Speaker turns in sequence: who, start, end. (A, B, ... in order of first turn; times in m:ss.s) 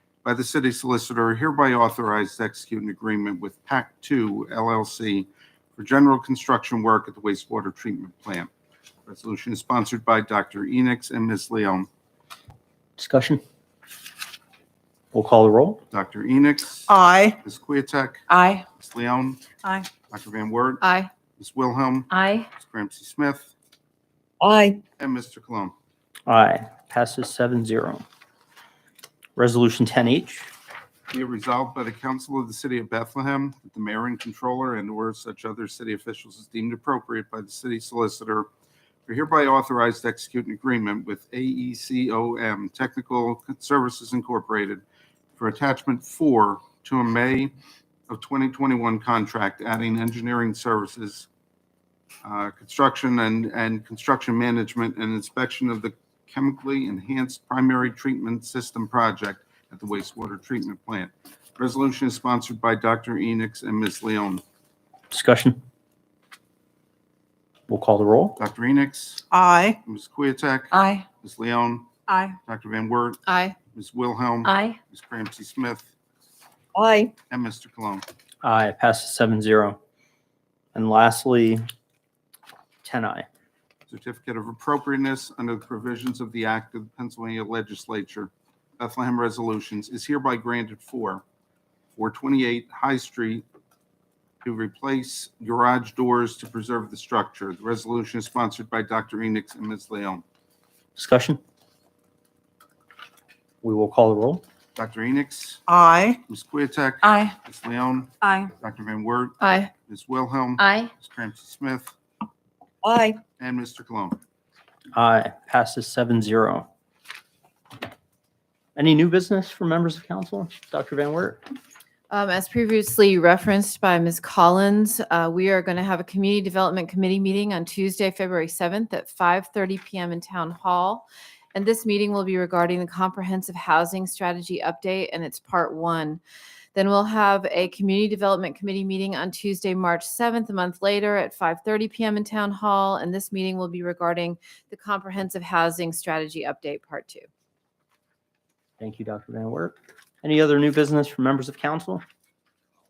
0:00.2-0:08.5 A
0:09.0-0:11.9 A
0:13.0-0:13.4 B
0:15.1-0:15.8 B
0:15.9-0:19.5 A
0:16.9-0:17.4 C
0:18.3-0:18.6 C
0:20.1-0:20.8 A
0:20.8-0:21.1 D
0:21.4-0:23.5 A
0:22.1-0:22.4 D
0:24.4-0:24.8 C
0:25.0-0:25.7 A
0:26.3-0:28.0 B
0:29.4-0:30.5 B
0:31.1-0:38.5 A
0:39.1-0:44.8 A
0:45.4-0:47.5 A
0:48.1-0:51.3 A
0:52.2-1:04.4 A
1:05.1-1:05.6 B
1:07.7-1:08.4 B
1:08.4-1:09.2 A
1:09.3-1:09.8 C
1:09.8-1:15.9 A
1:10.7-1:11.0 C
1:12.1-1:12.3 C
1:13.3-1:13.6 D
1:16.7-1:17.1 C
1:17.3-1:18.0 A
1:18.4-1:19.8 B
1:20.7-1:21.6 B
1:22.8-1:23.2 B
1:23.9-1:31.2 A
1:32.0-1:33.4 A
1:34.4-1:40.2 A
1:41.0-1:41.4 B
1:43.6-1:44.4 B
1:44.8-1:45.6 A
1:45.7-1:46.2 C
1:46.2-1:52.0 A
1:47.0-1:47.3 C
1:48.2-1:48.5 C
1:49.4-1:49.7 D
1:52.8-1:53.2 C
1:53.4-1:54.2 A
1:54.9-1:56.7 B
1:58.8-2:01.4 B
2:02.1-2:16.2 D
2:16.7-2:27.3 D
2:28.8-2:32.0 B